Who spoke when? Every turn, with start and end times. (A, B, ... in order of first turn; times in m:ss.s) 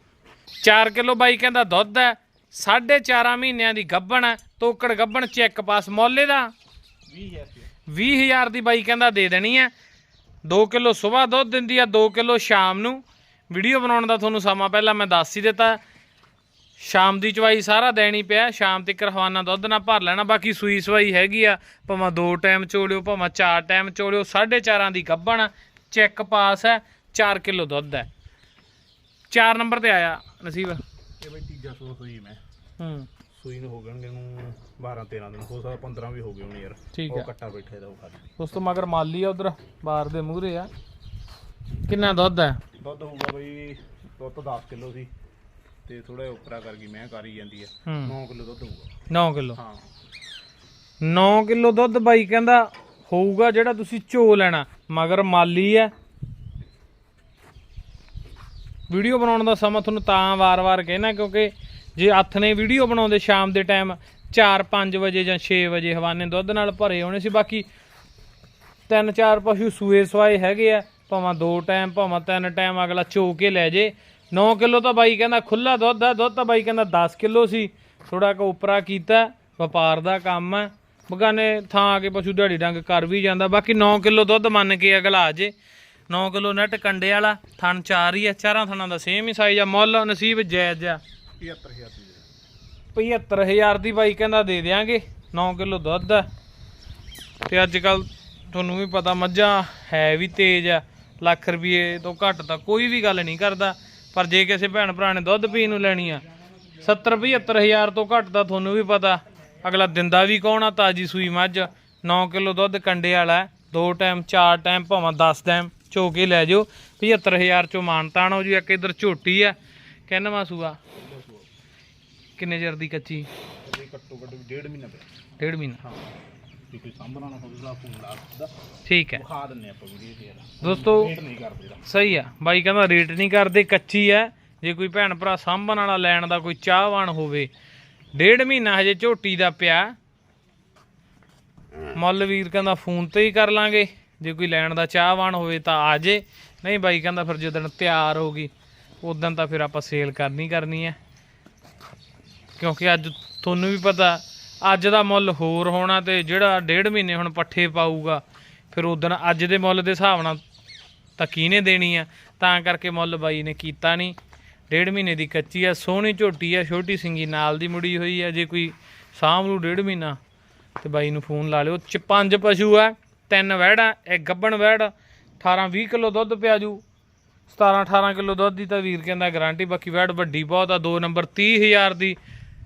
0:00.6-0:06.5 A
0:07.1-0:07.7 B
0:07.9-0:09.7 A
0:10.4-0:15.8 A
0:16.8-0:28.1 A
0:29.3-0:30.8 A
0:31.2-0:32.4 B
0:32.8-0:33.1 A
0:33.3-0:38.3 B
0:36.9-0:37.3 A
0:38.4-0:40.7 A
0:41.9-0:42.6 A
0:42.8-0:45.1 B
0:45.9-0:48.9 B
0:47.9-0:48.1 A
0:49.1-0:49.6 A
0:49.6-0:49.9 B
0:51.0-0:55.9 A
0:58.9-1:07.7 A
1:08.9-1:25.5 A
1:26.1-1:31.0 A
1:31.4-1:32.3 B
1:33.0-1:36.3 A
1:37.5-1:46.2 A
1:46.8-1:59.6 A
2:00.1-2:00.8 A
2:00.9-2:01.5 B
2:02.4-2:03.3 A
2:03.6-2:05.1 B
2:05.4-2:05.8 A
2:06.7-2:08.5 B
2:08.9-2:09.2 A
2:09.1-2:11.9 B
2:10.6-2:11.1 A
2:11.8-2:17.5 A
2:18.2-2:19.9 A
2:22.0-2:28.5 A
2:29.0-2:31.0 A
2:32.6-2:40.4 A
2:41.2-2:44.2 A
2:44.7-2:50.2 A
2:50.8-2:56.8 A
2:57.5-3:02.2 A